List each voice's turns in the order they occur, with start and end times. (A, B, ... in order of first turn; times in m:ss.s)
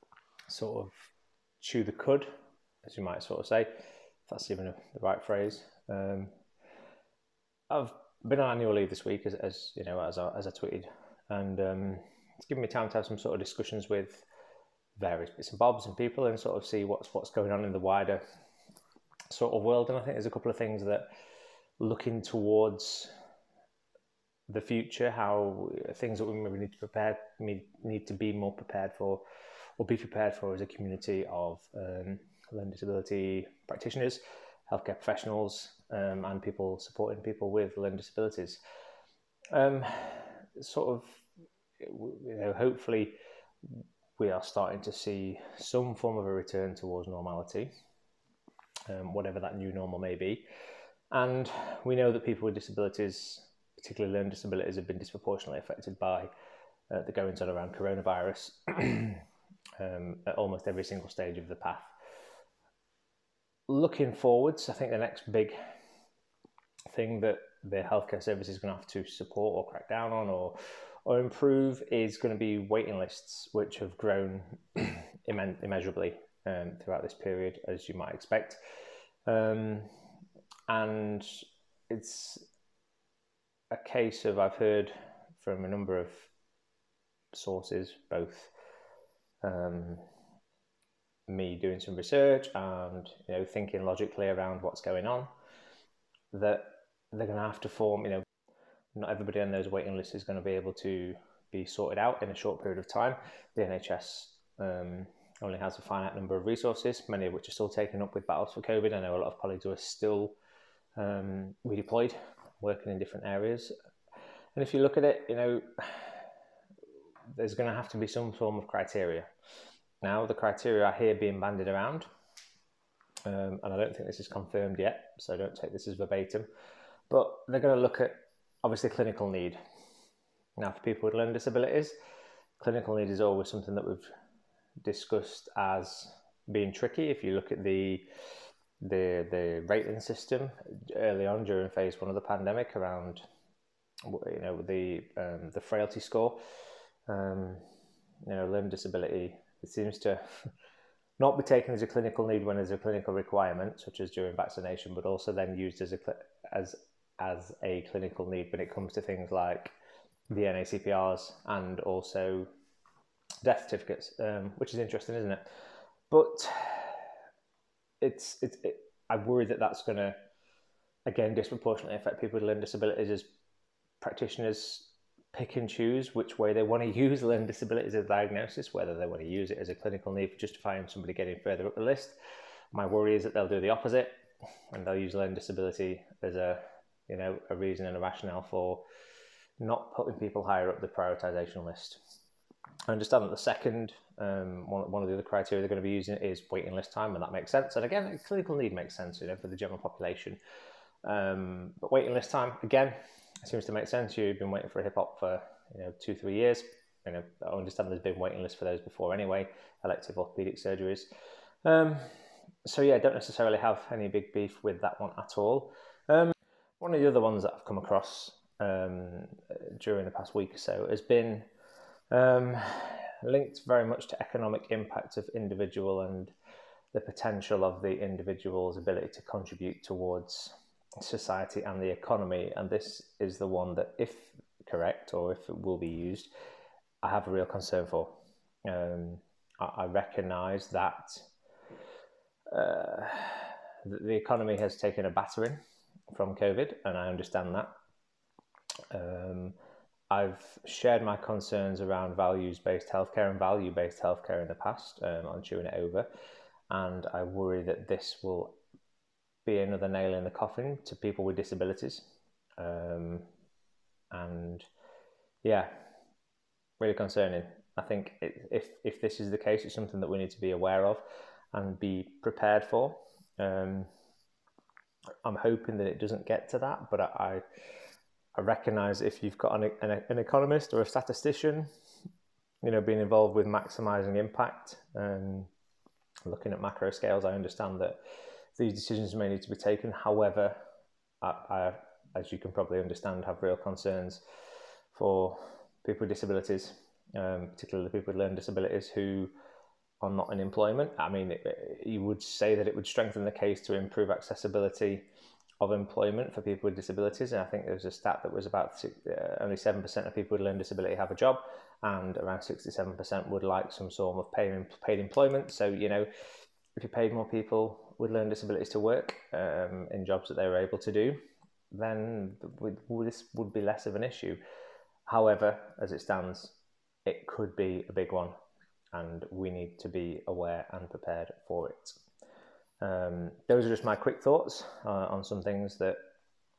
0:00.5-0:02.3 A
0:02.8-0:03.7 A
0:04.3-0:06.3 A
0:07.7-0:14.3 A
0:15.0-0:18.2 A
0:19.3-0:21.1 A
0:21.8-0:23.1 A
0:24.5-0:29.2 A
0:29.8-0:38.6 A
0:39.5-0:41.2 A
0:41.8-0:47.7 A
0:48.9-0:50.4 A
0:51.1-0:56.3 A
0:56.9-0:59.2 A
0:59.8-1:01.9 A
1:03.7-1:05.6 A
1:06.9-1:18.6 A
1:19.3-1:19.9 A
1:20.7-1:22.5 A
1:23.7-1:26.3 A
1:27.3-1:28.5 A
1:29.4-1:30.0 A
1:31.3-1:35.3 A
1:36.3-1:38.2 A
1:39.0-1:50.4 A
1:51.0-1:53.7 A
1:54.6-1:56.2 A
1:57.3-1:59.3 A
2:00.0-2:02.1 A
2:03.3-2:06.5 A
2:07.1-2:09.6 A
2:10.6-2:12.0 A
2:12.6-2:14.1 A
2:14.8-2:18.1 A
2:18.8-2:23.2 A
2:24.1-2:26.4 A
2:27.1-2:27.6 A
2:28.2-2:30.2 A
2:31.2-2:39.7 A
2:40.3-2:42.5 A
2:43.4-2:45.5 A
2:46.1-2:47.1 A
2:48.0-2:50.2 A
2:51.1-2:53.3 A
2:54.0-3:02.2 A
3:02.7-3:04.2 A
3:04.7-3:08.8 A
3:09.6-3:12.0 A
3:12.9-3:20.4 A
3:21.0-3:31.1 A
3:31.6-3:41.5 A
3:42.1-3:46.3 A
3:46.9-3:56.3 A
3:57.0-3:58.2 A
3:58.7-4:01.3 A
4:02.5-4:05.6 A
4:06.1-4:07.7 A
4:08.9-4:09.6 A
4:10.1-4:16.1 A
4:16.7-4:18.6 A
4:19.4-4:22.1 A
4:22.6-4:23.3 A
4:24.1-4:24.7 A
4:25.4-4:25.7 A
4:26.8-4:33.9 A
4:35.2-4:37.4 A
4:38.4-4:41.7 A
4:42.6-4:45.5 A
4:46.3-4:48.0 A
4:48.6-4:50.6 A
4:51.2-4:54.2 A
4:54.9-4:59.3 A
5:00.0-5:05.1 A
5:05.6-5:16.1 A
5:16.8-5:21.2 A
5:21.7-5:24.4 A
5:25.1-5:28.3 A
5:28.9-5:32.0 A
5:32.8-5:36.0 A